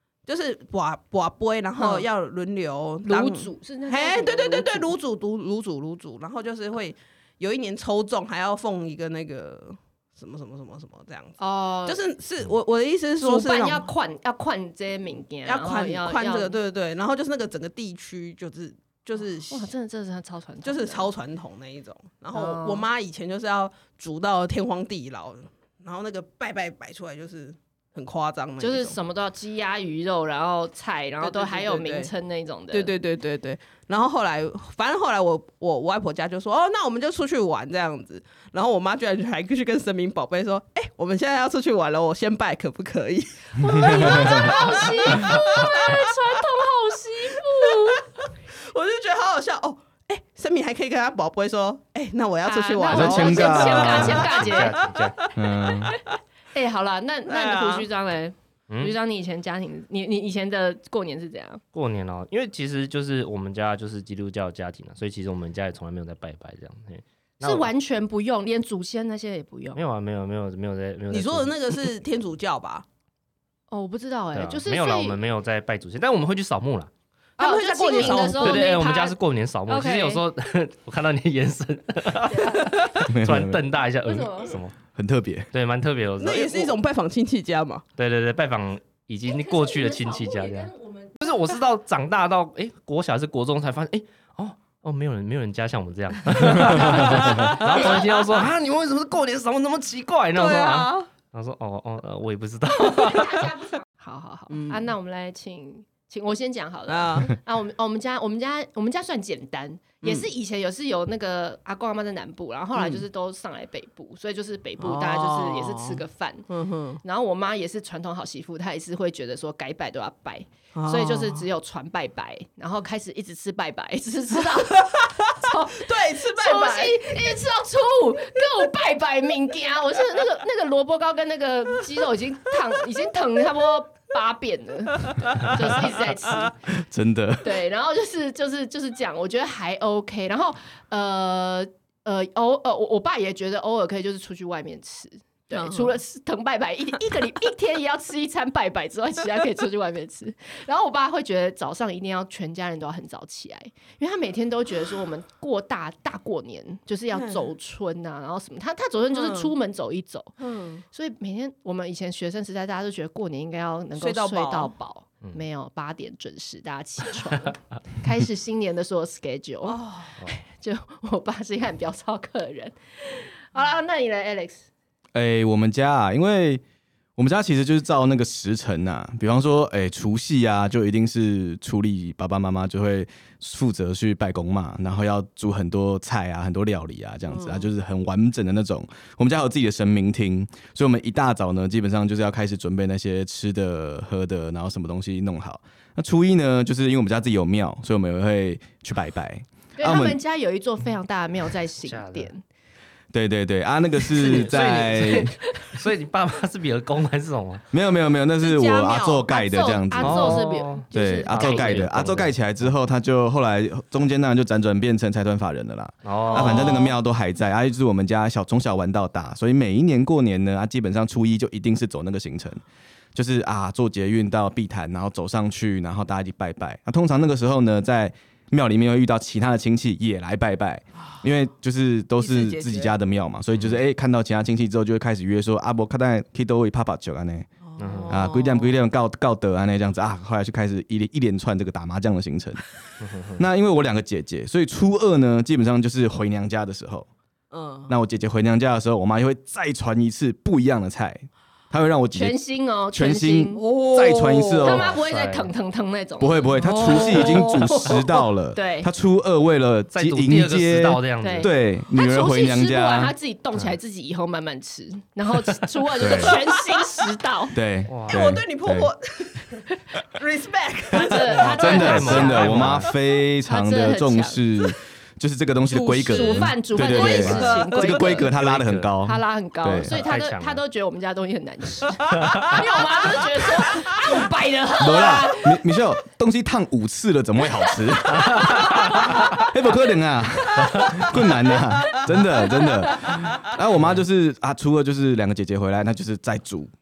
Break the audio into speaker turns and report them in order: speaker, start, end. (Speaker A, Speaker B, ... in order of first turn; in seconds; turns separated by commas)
Speaker A: 0.2-13.9, Speaker B: 1.8-2.0, Speaker B: 3.0-4.9, Speaker B: 11.4-12.0, Speaker B: 13.2-16.6, Speaker A: 15.4-19.7, Speaker B: 19.5-21.1, Speaker A: 20.6-29.0, Speaker B: 22.3-22.9, Speaker B: 28.6-32.9, Speaker A: 31.2-32.1, Speaker A: 32.7-46.1, Speaker B: 43.6-48.0, Speaker C: 43.8-44.5, Speaker A: 47.6-48.0, Speaker A: 48.6-56.0, Speaker B: 52.4-54.8, Speaker C: 52.9-54.3, Speaker D: 53.6-55.2, Speaker C: 55.3-55.9, Speaker B: 56.5-61.6, Speaker A: 57.3-57.9, Speaker D: 61.7-67.7, Speaker B: 67.4-69.8, Speaker D: 69.7-71.6, Speaker A: 71.1-72.8, Speaker B: 73.7-75.2, Speaker D: 74.3-76.9, Speaker A: 77.4-78.7, Speaker B: 77.4-79.2, Speaker D: 78.0-84.8, Speaker B: 79.7-80.2, Speaker B: 82.2-82.8, Speaker C: 83.0-83.6, Speaker B: 84.0-84.5, Speaker C: 84.9-85.5, Speaker D: 85.5-86.8, Speaker A: 86.2-87.8, Speaker D: 88.0-103.4, Speaker B: 89.2-91.4, Speaker A: 96.4-98.5, Speaker A: 100.3-101.1, Speaker B: 102.8-116.5, Speaker A: 104.5-104.9, Speaker A: 106.9-107.3, Speaker A: 110.0-110.3, Speaker A: 112.7-113.0, Speaker A: 114.8-117.0, Speaker B: 117.0-136.6, Speaker A: 120.7-121.4, Speaker A: 124.5-127.4, Speaker A: 135.1-135.9, Speaker C: 136.7-137.6, Speaker B: 137.4-160.3, Speaker A: 145.5-145.9, Speaker A: 157.1-157.5, Speaker A: 159.1-159.5, Speaker A: 160.4-160.8, Speaker B: 160.9-174.6, Speaker A: 163.9-164.7, Speaker A: 169.7-170.2, Speaker C: 175.1-176.6, Speaker C: 177.2-200.2, Speaker A: 187.3-187.7, Speaker B: 199.8-202.4, Speaker D: 201.8-202.3, Speaker C: 203.1-205.3, Speaker D: 204.1-207.6, Speaker C: 207.7-222.6, Speaker A: 208.4-209.3, Speaker B: 209.3-211.8, Speaker D: 210.0-212.4, Speaker D: 216.0-216.7, Speaker A: 216.3-216.9, Speaker C: 223.1-237.5, Speaker A: 232.2-232.9, Speaker A: 237.6-238.7, Speaker D: 237.8-238.2, Speaker C: 238.1-242.6, Speaker D: 243.0-243.4, Speaker C: 243.3-247.1, Speaker A: 247.5-247.9, Speaker C: 247.9-252.4, Speaker B: 252.1-253.6, Speaker C: 252.9-255.0, Speaker A: 253.5-254.8, Speaker B: 254.6-257.6, Speaker D: 254.9-255.5, Speaker C: 256.2-263.1, Speaker A: 256.6-258.3, Speaker B: 258.5-258.9, Speaker D: 259.9-261.5, Speaker B: 261.2-267.6, Speaker C: 266.0-266.4, Speaker A: 266.1-267.1, Speaker C: 267.5-268.9, Speaker D: 267.9-268.4, Speaker A: 268.1-272.3, Speaker B: 270.9-272.8, Speaker C: 270.9-280.0, Speaker D: 271.3-272.9, Speaker B: 273.4-274.4, Speaker A: 275.7-278.2, Speaker B: 276.1-278.3, Speaker D: 278.3-278.9, Speaker B: 279.0-285.8, Speaker D: 279.8-280.6, Speaker A: 282.2-282.6, Speaker C: 284.8-296.7, Speaker D: 288.2-289.1, Speaker B: 288.3-288.7, Speaker A: 290.7-292.2, Speaker B: 292.5-293.1, Speaker A: 293.1-293.5